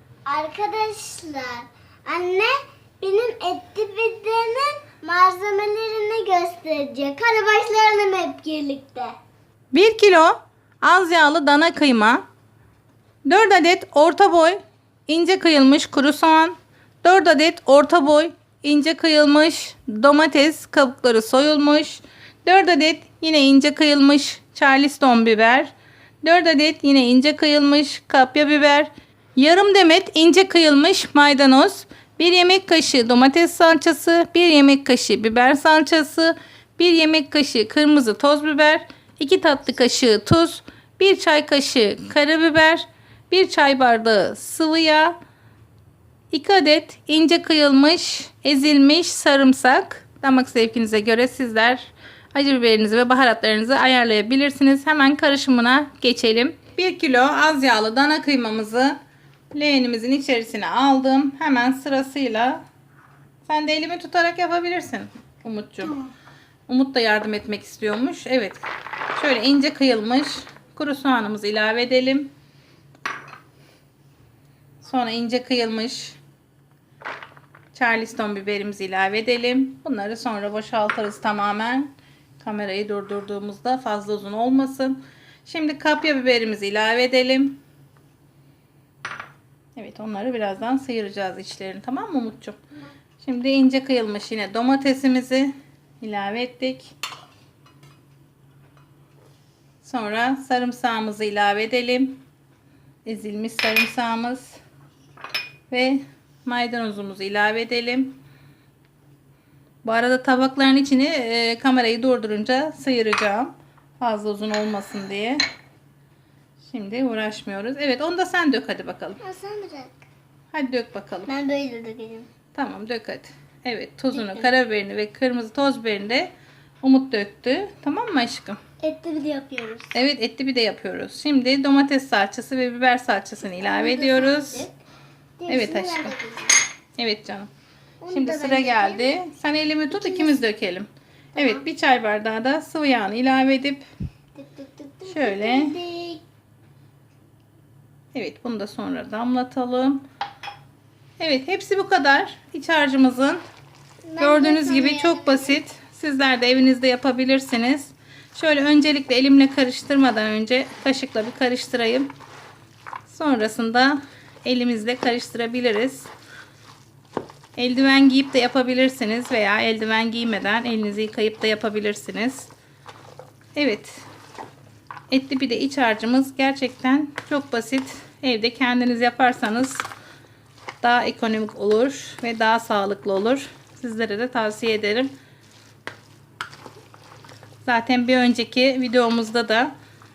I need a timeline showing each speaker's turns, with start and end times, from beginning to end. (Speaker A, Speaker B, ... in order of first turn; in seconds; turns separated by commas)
Speaker A: 0.3-9.2, Speaker B: 9.7-12.2, Speaker B: 13.2-45.2, Speaker B: 46.3-59.0, Speaker B: 59.5-62.6, Speaker B: 63.5-66.0, Speaker B: 66.7-68.6, Speaker B: 69.2-72.3, Speaker B: 74.8-76.2, Speaker B: 77.7-87.6, Speaker B: 89.8-92.6, Speaker B: 93.2-96.9, Speaker B: 99.8-102.2, Speaker B: 103.0-104.6, Speaker B: 105.7-108.2, Speaker B: 109.8-115.4, Speaker B: 116.6-119.2, Speaker A: 119.2-120.0, Speaker B: 120.5-121.3, Speaker A: 121.3-122.3, Speaker B: 122.5-126.3, Speaker A: 124.1-124.5, Speaker B: 126.8-128.6, Speaker A: 128.8-130.0, Speaker B: 129.9-134.7, Speaker A: 133.6-134.7, Speaker A: 135.4-136.6, Speaker B: 135.5-136.2, Speaker B: 137.0-137.5, Speaker A: 138.0-139.2, Speaker B: 138.1-143.8, Speaker A: 139.9-140.4, Speaker A: 144.4-146.2, Speaker B: 145.1-145.8, Speaker B: 148.1-150.0, Speaker B: 151.2-153.4, Speaker A: 154.1-155.6, Speaker B: 154.2-162.1, Speaker B: 163.1-166.1, Speaker B: 167.6-172.5, Speaker B: 173.6-174.0, Speaker B: 175.1-179.8, Speaker B: 180.8-185.1, Speaker B: 187.7-189.7